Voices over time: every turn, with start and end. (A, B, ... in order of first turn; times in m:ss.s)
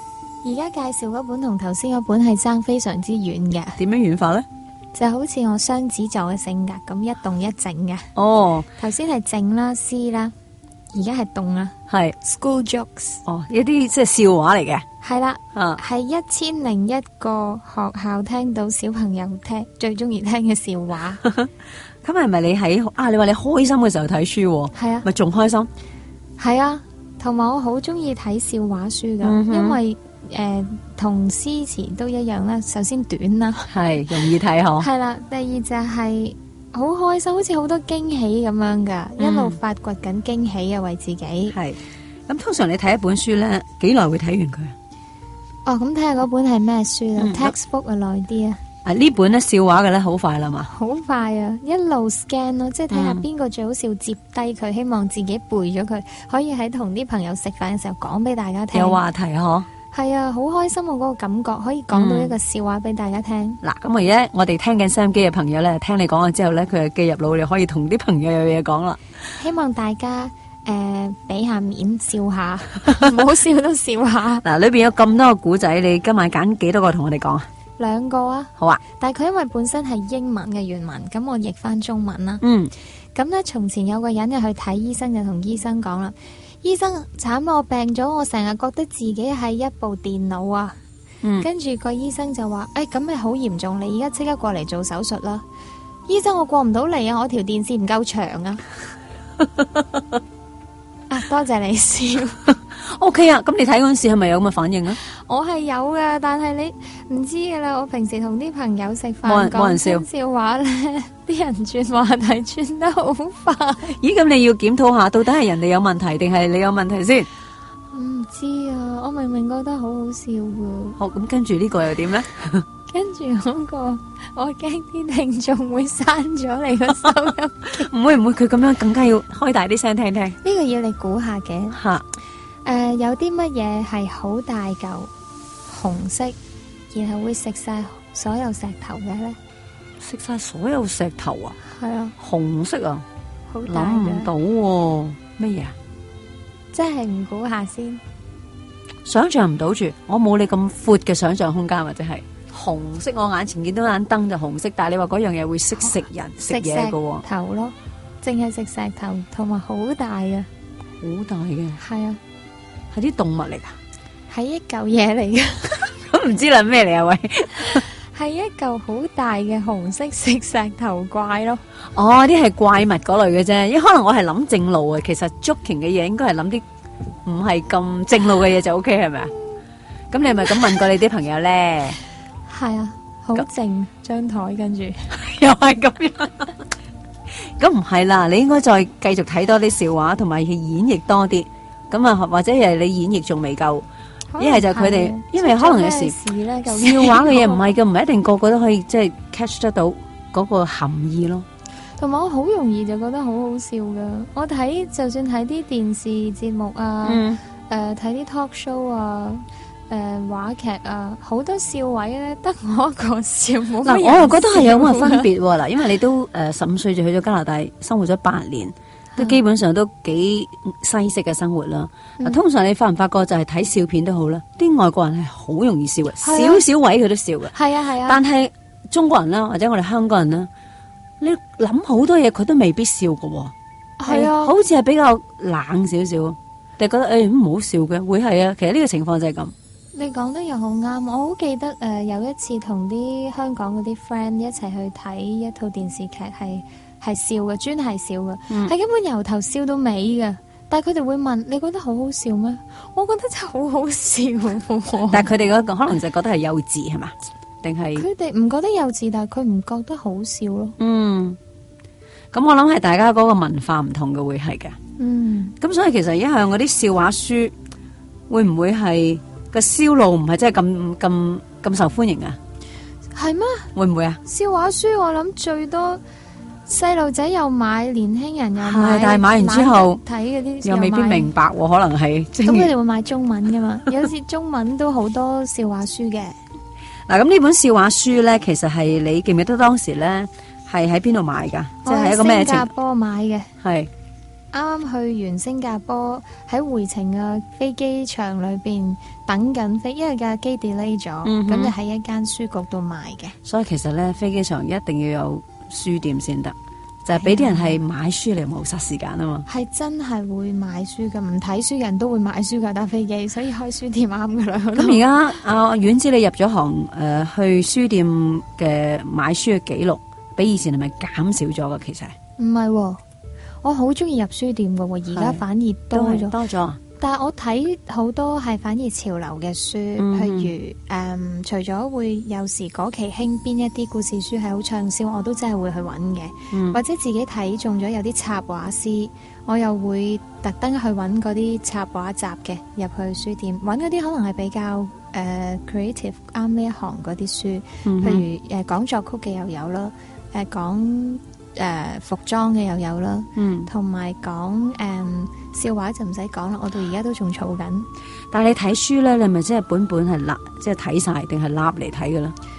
0:00.4-0:03.8 A
0:03.8-0:04.4 B
0:04.9-0:08.1 A
0:08.1-0:08.7 B
0:08.8-0:10.3 A
0:10.9-0:13.2 A
0:11.9-0:12.2 B
0:13.2-0:14.8 B
0:15.0-0:21.2 A
0:15.5-0:15.8 B
0:22.0-0:25.7 B
0:24.7-0:25.0 A
0:26.4-0:33.7 A
0:29.2-0:29.8 B
0:33.7-0:34.9 B
0:34.3-0:41.6 A
0:39.2-0:39.6 B
0:41.5-0:44.7 B
0:45.6-0:48.6 A
0:47.2-0:47.5 B
0:48.8-0:50.7 B
0:50.7-0:59.0 A
0:52.9-0:53.2 B
0:58.7-0:59.7 B
0:59.9-1:03.6 A
1:01.9-1:02.3 B
1:03.6-1:09.0 B
1:09.4-1:14.4 A
1:14.4-1:17.5 B
1:17.8-1:22.4 A
1:22.4-1:22.7 B
1:23.1-1:30.8 A
1:31.4-1:35.4 A
1:36.1-1:38.6 A
1:41.1-1:42.4 A
1:42.8-1:45.0 B
1:45.0-1:54.0 A
1:49.2-1:50.0 B
1:54.0-1:57.3 B
1:57.9-2:01.0 A
2:01.0-2:02.6 B
2:02.9-2:07.9 A
2:07.8-2:10.4 B
2:10.4-2:11.8 A
2:11.7-2:12.0 B
2:12.6-2:15.1 A
2:15.7-2:16.4 A
2:16.9-2:19.4 A
2:20.0-2:21.6 B
2:21.6-2:22.1 A
2:22.2-2:23.0 B
2:23.5-2:24.3 A
2:23.6-2:25.7 B
2:26.7-2:28.0 A
2:29.0-2:37.2 B
2:35.9-2:40.5 A
2:41.0-2:41.8 B
2:41.8-2:42.2 A
2:42.9-2:43.7 B
2:44.3-2:45.9 A
2:45.9-2:47.8 B
2:47.7-2:51.6 A
2:51.9-2:56.6 B
2:57.2-2:59.3 B
3:00.1-3:02.0 B
3:02.5-3:05.1 A
3:05.1-3:06.6 B
3:07.6-3:13.8 B
3:14.3-3:17.7 A
3:14.4-3:16.2 B
3:16.7-3:21.4 B
3:22.0-3:35.3 A
3:27.0-3:27.4 B
3:33.8-3:50.5 B
3:46.2-3:46.6 A
3:47.5-3:48.2 A
3:51.2-3:53.5 B
3:54.0-3:54.5 A
3:54.1-3:59.5 B
3:59.9-4:15.3 A
4:15.1-4:18.1 B
4:18.0-4:20.8 A
4:20.8-4:21.4 B
4:22.3-4:24.8 B
4:25.0-4:25.6 A
4:25.6-4:27.5 B
4:28.3-4:32.4 B
4:33.1-4:33.7 A
4:33.7-4:34.2 B
4:34.2-4:36.0 A
4:36.6-4:41.3 A
4:38.6-4:40.0 B
4:40.6-4:42.7 B
4:42.4-4:46.4 A
4:47.1-4:52.7 B
4:51.8-4:53.5 A
4:53.6-4:53.9 B
4:54.5-5:03.4 A
5:01.2-5:01.7 B
5:03.4-5:09.4 B
5:07.1-5:07.8 A
5:09.4-5:15.0 A
5:14.8-5:22.1 B
5:22.4-5:23.0 A
5:23.6-5:26.4 A
5:25.1-5:25.4 B
5:25.9-5:26.8 B
5:27.0-5:57.9 A
5:30.0-5:30.5 B
5:36.5-5:36.8 B
5:47.8-5:48.2 B
5:53.4-5:53.7 B
5:58.3-6:02.3 B